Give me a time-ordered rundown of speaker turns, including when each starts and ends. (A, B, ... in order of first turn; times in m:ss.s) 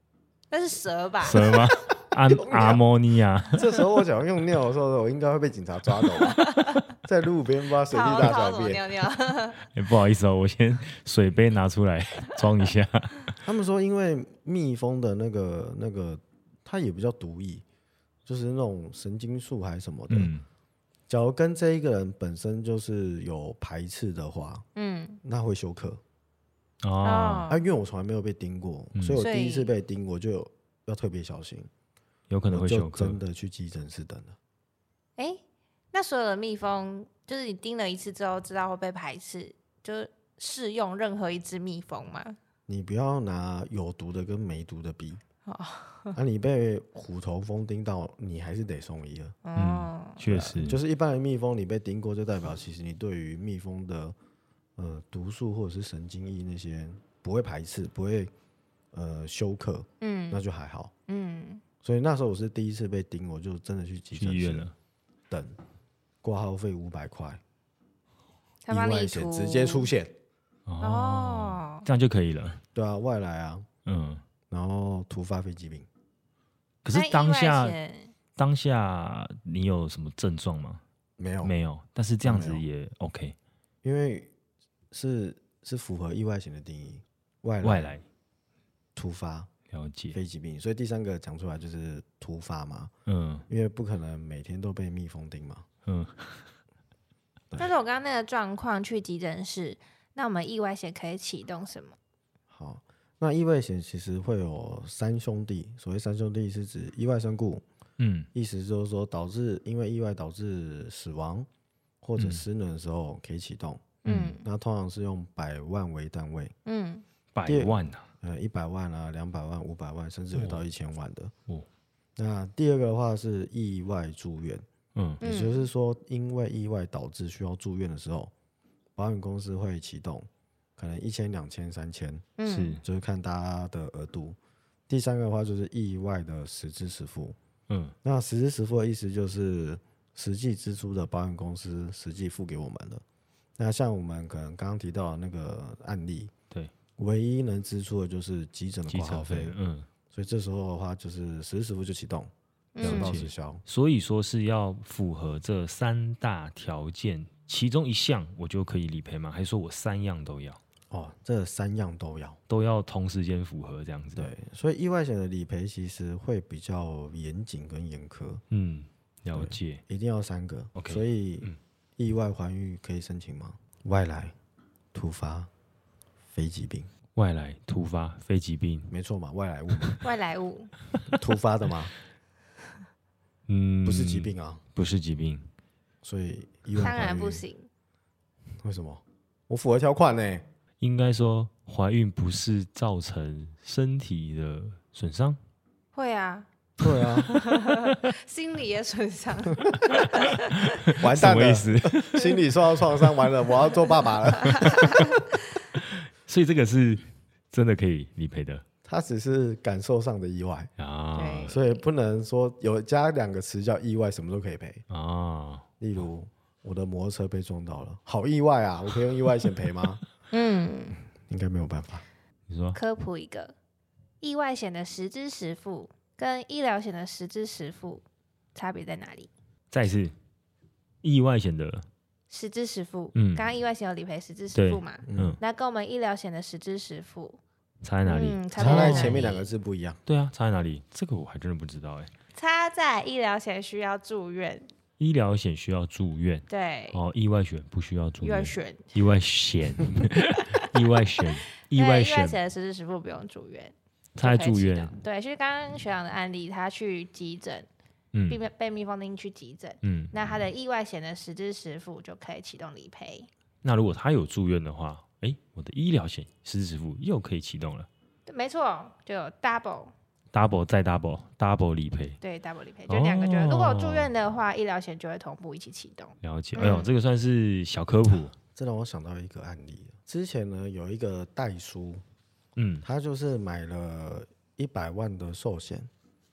0:00.5-0:01.7 A
0:01.2-0:03.6 B
0:02.2-0:02.8 C
0:03.5-0:08.9 C
0:06.3-0:06.8 A
0:07.9-0:09.6 A
0:09.7-0:13.3 B
0:13.4-0:17.6 C
0:18.2-0:20.3 C
0:20.1-0:20.4 B
0:21.1-0:24.6 C
0:24.8-0:25.2 A
0:25.2-0:26.0 C
0:26.8-0:27.5 B
0:27.0-0:27.6 A
0:27.5-0:31.7 C
0:28.9-0:29.2 B
0:29.2-0:29.7 A
0:32.3-0:33.2 B
0:32.5-0:34.4 C
0:35.9-0:42.4 A
0:42.7-0:45.2 C
0:45.4-0:46.2 A
0:46.1-0:49.4 C
0:49.4-0:50.2 A
0:49.5-0:50.8 B
0:50.2-0:54.2 C
0:54.8-0:58.3 C
0:58.9-1:00.9 C
1:00.0-1:00.4 A
1:01.1-1:01.6 A
1:01.8-1:04.7 C
1:04.1-1:04.7 B
1:05.3-1:05.6 C
1:06.2-1:07.4 C
1:08.6-1:09.9 A
1:08.7-1:10.1 C
1:10.7-1:12.6 B
1:10.8-1:11.8 A
1:12.7-1:13.7 C
1:13.8-1:14.2 B
1:14.5-1:15.9 C
1:16.8-1:17.8 B
1:16.9-1:18.1 A
1:18.4-1:20.8 B
1:21.2-1:21.5 C
1:21.4-1:23.4 B
1:22.2-1:22.6 C
1:23.8-1:24.3 C
1:24.9-1:27.9 C
1:27.6-1:28.0 B
1:29.0-1:29.5 C
1:29.7-1:30.2 B
1:30.1-1:32.9 C
1:33.0-1:33.4 B
1:33.5-1:35.6 C
1:35.8-1:36.5 B
1:37.6-1:42.0 A
1:42.5-1:47.6 C
1:48.0-1:48.3 B
1:48.3-1:51.5 C
1:52.0-1:56.5 C
1:52.2-1:52.4 B
1:54.0-1:54.4 B
1:54.0-1:54.4 A
1:56.6-1:57.0 A
1:57.3-1:58.1 B
1:57.4-2:01.3 C
2:00.3-2:00.6 B
2:02.2-2:04.6 C
2:04.9-2:05.2 B
2:05.2-2:05.7 A
2:05.2-2:08.3 C
2:09.0-2:14.4 C
2:12.4-2:12.8 A
2:12.4-2:12.8 B
2:14.9-2:17.4 C
2:17.7-2:18.0 B
2:18.0-2:23.0 C
2:23.6-2:26.3 C
2:27.0-2:29.5 C
2:28.9-2:29.9 B
2:30.1-2:33.6 C
2:32.7-2:33.1 A
2:32.8-2:40.6 B
2:40.9-2:42.4 C
2:42.5-2:44.3 B
2:44.2-2:48.4 C
2:48.5-2:49.8 B
2:49.4-2:54.3 C
2:50.7-2:51.6 B
2:54.9-2:55.5 C
2:56.3-2:56.9 C
2:57.2-2:58.9 B
2:58.9-3:00.0 C
3:00.0-3:00.7 A
3:01.1-3:01.9 C
3:03.5-3:05.5 B
3:03.8-3:04.6 C
3:06.0-3:07.4 C
3:06.8-3:07.7 A
3:08.6-3:10.4 C
3:10.8-3:15.4 B
3:15.9-3:16.5 A
3:16.8-3:17.3 C
3:17.0-3:18.1 B
3:17.3-3:20.5 A
3:19.8-3:22.4 B
3:20.9-3:25.2 C
3:24.4-3:25.2 A
3:24.5-3:25.0 B
3:25.7-3:28.6 B
3:28.8-3:30.7 C
3:30.8-3:31.6 B
3:31.1-3:31.8 A
3:31.4-3:34.8 C
3:34.9-3:36.0 B
3:35.8-3:40.0 C
3:40.3-3:41.0 A
3:41.2-3:42.0 C
3:42.5-3:42.8 B
3:42.7-3:43.5 A
3:44.2-3:48.0 A
3:48.5-3:49.3 A
3:49.7-3:50.1 B
3:51.0-3:51.9 B
3:52.3-3:57.4 A
3:53.1-3:53.5 B
3:54.5-3:55.4 B
3:55.0-3:55.4 C
3:57.8-3:59.3 B
3:58.0-3:59.5 A
3:58.6-4:00.0 C
4:00.0-4:02.1 B
4:02.3-4:04.7 A
4:05.0-4:12.4 B
4:06.5-4:07.0 A
4:08.2-4:08.9 A
4:11.7-4:17.7 A
4:14.2-4:14.9 B
4:18.1-4:18.4 B
4:18.3-4:23.3 A
4:19.8-4:20.1 B
4:23.6-4:27.9 B
4:28.2-4:29.9 A
4:30.3-4:32.2 B
4:32.2-4:36.9 A
4:32.9-4:34.1 B
4:36.2-4:38.3 B
4:38.5-4:42.0 C
4:42.6-4:42.8 B
4:42.8-4:45.9 C